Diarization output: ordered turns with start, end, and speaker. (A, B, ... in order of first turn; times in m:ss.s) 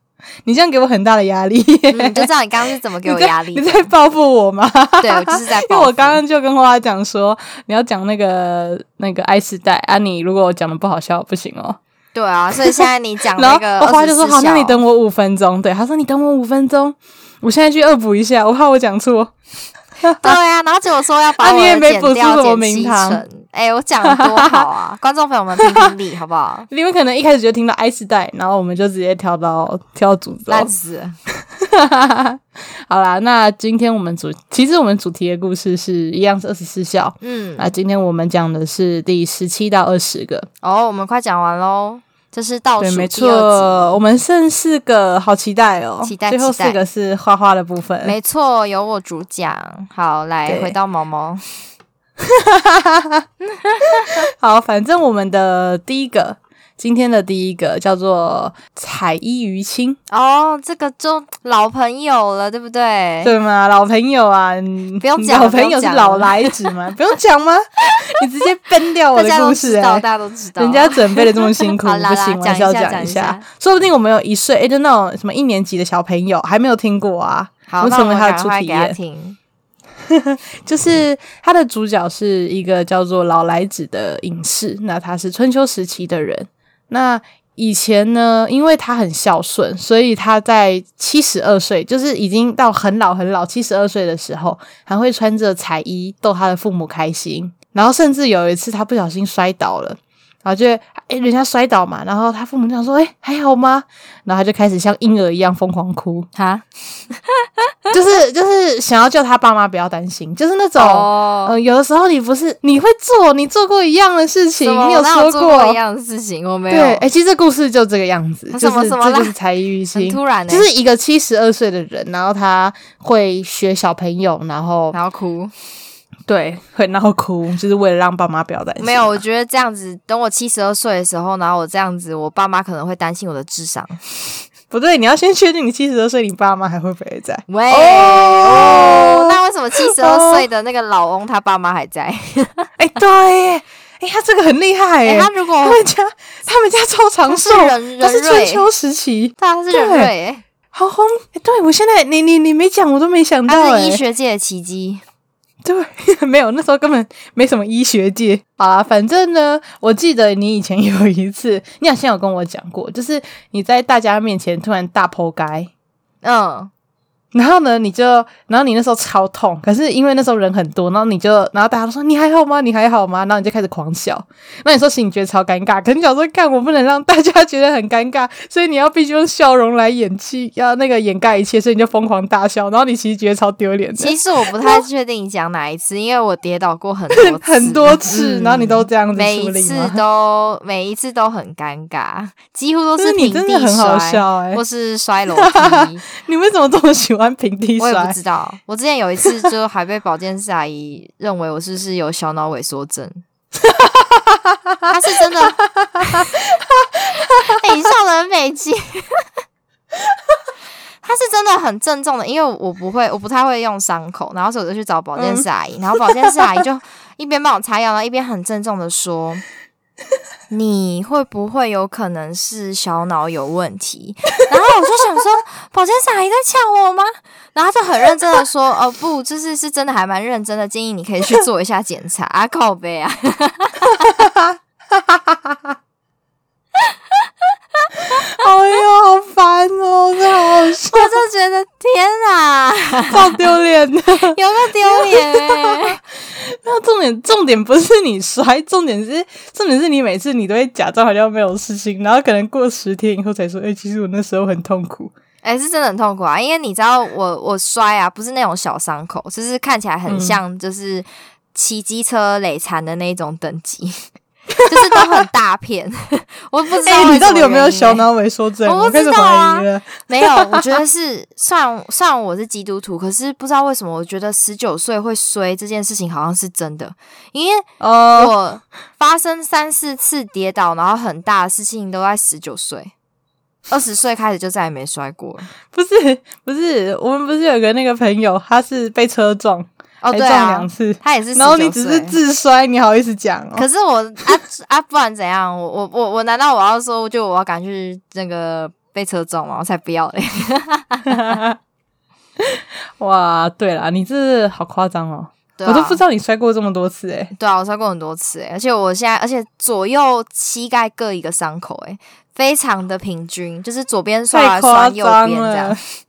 0:00.4-0:02.3 A
0:01.9-0:03.9 B
0:03.0-0:11.8 A
0:05.0-0:06.2 B
0:12.1-0:14.8 B
0:13.3-0:19.3 A
0:20.0-0:20.4 A
0:20.2-0:26.7 B
0:21.4-0:23.2 A
0:24.0-0:24.7 A
0:25.6-0:25.9 A
0:26.7-0:30.7 A
0:30.5-0:31.2 B
0:31.4-0:40.5 A
0:37.2-0:37.7 B
0:40.6-0:44.0 B
0:42.8-0:48.1 A
0:46.0-0:46.8 B
0:48.0-0:51.4 B
0:50.4-0:50.8 A
0:52.2-0:53.2 A
0:53.4-0:54.2 B
0:54.0-1:00.0 A
1:00.1-1:03.3 B
1:03.2-1:10.0 A
1:05.0-1:06.6 B
1:09.1-1:13.5 B
1:10.6-1:19.0 A
1:17.7-1:19.4 B
1:20.1-1:46.3 A
1:46.3-1:47.5 B
1:47.9-1:55.8 A
1:50.8-1:51.6 B
1:54.6-1:57.0 B
1:56.7-2:05.0 A
1:58.5-1:59.3 B
1:59.9-2:00.7 B
2:04.9-2:05.5 B
2:06.3-2:09.2 A
2:08.8-2:14.0 B
2:14.7-2:20.4 A
2:17.5-2:22.7 B
2:22.8-2:30.1 A
2:25.0-2:25.8 B
2:27.3-2:28.6 B
2:29.4-2:30.4 B
2:30.7-2:34.0 A
2:33.5-2:35.0 B
2:35.6-2:45.7 A
2:46.2-2:46.7 B
2:47.3-3:04.8 A
3:04.0-3:16.0 B
3:07.1-3:10.0 A
3:13.0-3:14.6 A
3:15.3-3:18.2 A
3:17.8-3:23.2 B
3:23.7-3:24.6 A
3:24.9-3:26.2 B
3:25.6-3:27.6 A
3:27.3-3:29.2 B
3:31.0-3:39.4 B
3:35.2-3:35.4 A
3:36.0-3:36.3 A
3:40.5-3:54.0 B
3:54.0-3:55.7 A
3:58.1-4:01.1 A
4:00.8-4:03.4 B
4:03.1-4:15.1 A
4:04.3-4:06.0 B
4:15.4-4:24.0 B
4:20.1-4:20.4 A
4:24.7-4:28.0 B
4:24.7-4:25.0 A
4:26.8-4:30.7 A
4:28.6-4:42.9 B
4:37.8-4:38.3 A
4:43.7-4:45.5 B
4:45.7-4:53.6 A
4:50.0-4:52.2 B
4:53.5-5:01.1 B
5:01.1-5:01.6 A
5:02.4-5:07.3 A
5:05.6-5:06.0 B
5:07.3-5:15.8 B
5:14.3-5:15.8 A